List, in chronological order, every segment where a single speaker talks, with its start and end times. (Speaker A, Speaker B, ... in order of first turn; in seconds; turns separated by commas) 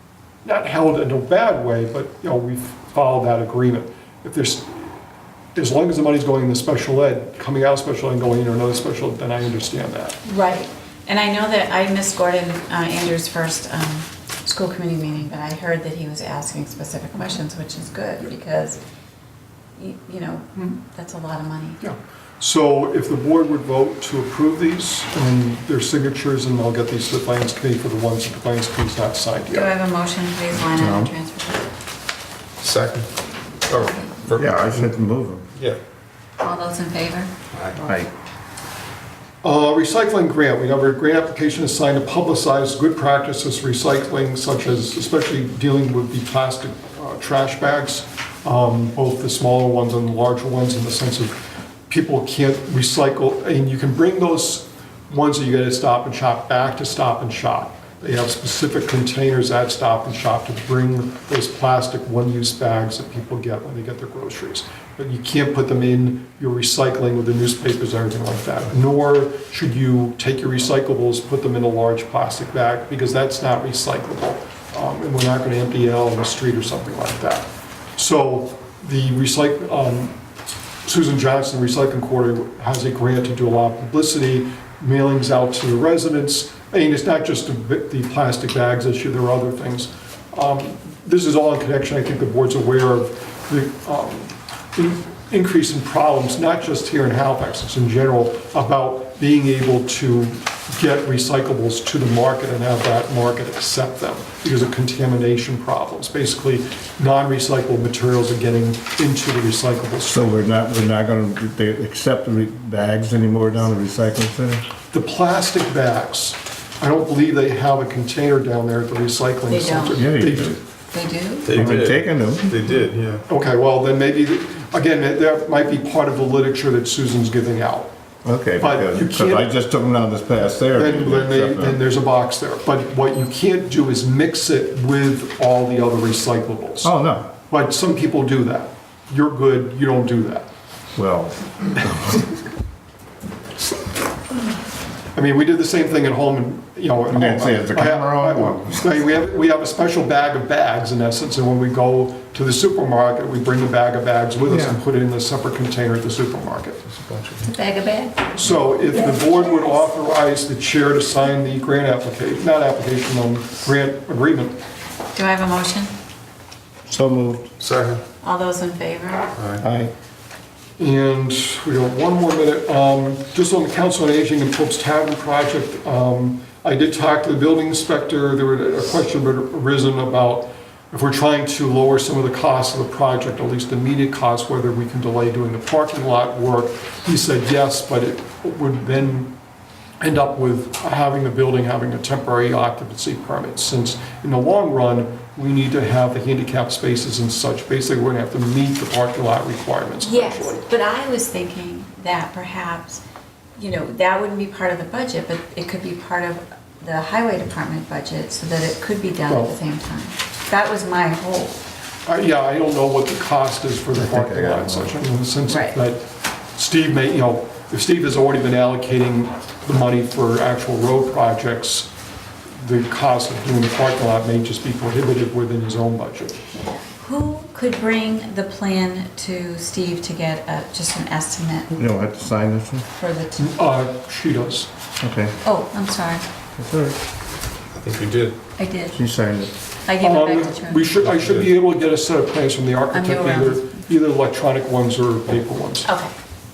Speaker A: 0.5-5.0, Speaker A: 5.6-10.2, Speaker B: 10.3-18.8, Speaker B: 19.8-21.8, Speaker A: 21.8-29.7, Speaker B: 29.5-31.7, Speaker C: 30.6-31.1, Speaker D: 32.6-33.1, Speaker D: 33.7-34.9, Speaker B: 33.8-34.1, Speaker C: 34.4-35.5, Speaker B: 36.4-37.3, Speaker C: 37.7-38.1, Speaker A: 39.4-80.2, Speaker A: 80.8-110.3, Speaker C: 110.1-114.6, Speaker A: 114.9-120.6, Speaker B: 119.5-120.0, Speaker C: 120.0-120.6, Speaker B: 120.9-121.6, Speaker D: 121.4-123.2, Speaker C: 121.5-122.5, Speaker A: 123.3-127.9, Speaker C: 128.2-131.8, Speaker A: 128.6-129.5, Speaker A: 130.7-136.9, Speaker C: 136.8-137.3, Speaker A: 137.5-140.5, Speaker C: 141.0-142.3, Speaker A: 145.2-156.8, Speaker C: 147.1-148.9, Speaker C: 154.5-154.8, Speaker D: 156.9-157.4, Speaker B: 157.4-158.2, Speaker A: 158.3-164.6, Speaker B: 159.0-159.3, Speaker B: 165.2-165.9, Speaker C: 166.9-167.5, Speaker D: 167.6-168.0, Speaker B: 168.2-169.3, Speaker D: 169.3-169.6, Speaker C: 169.6-169.9, Speaker A: 170.8-189.3, Speaker A: 190.0-200.6, Speaker B: 200.0-203.0, Speaker B: 203.6-211.6, Speaker A: 209.3-209.5, Speaker A: 212.1-221.9, Speaker C: 213.9-214.9, Speaker B: 215.5-215.8, Speaker A: 222.6-226.4, Speaker B: 227.0-231.7, Speaker C: 231.7-232.9, Speaker B: 233.0-233.5, Speaker A: 233.4-234.7, Speaker C: 235.0-235.4, Speaker B: 235.4-236.2, Speaker C: 236.6-237.0, Speaker D: 237.8-238.4, Speaker B: 238.6-239.0, Speaker C: 238.9-239.5, Speaker B: 239.9-240.9, Speaker A: 240.0-245.9, Speaker D: 241.0-241.5, Speaker B: 242.9-243.8, Speaker B: 245.8-246.1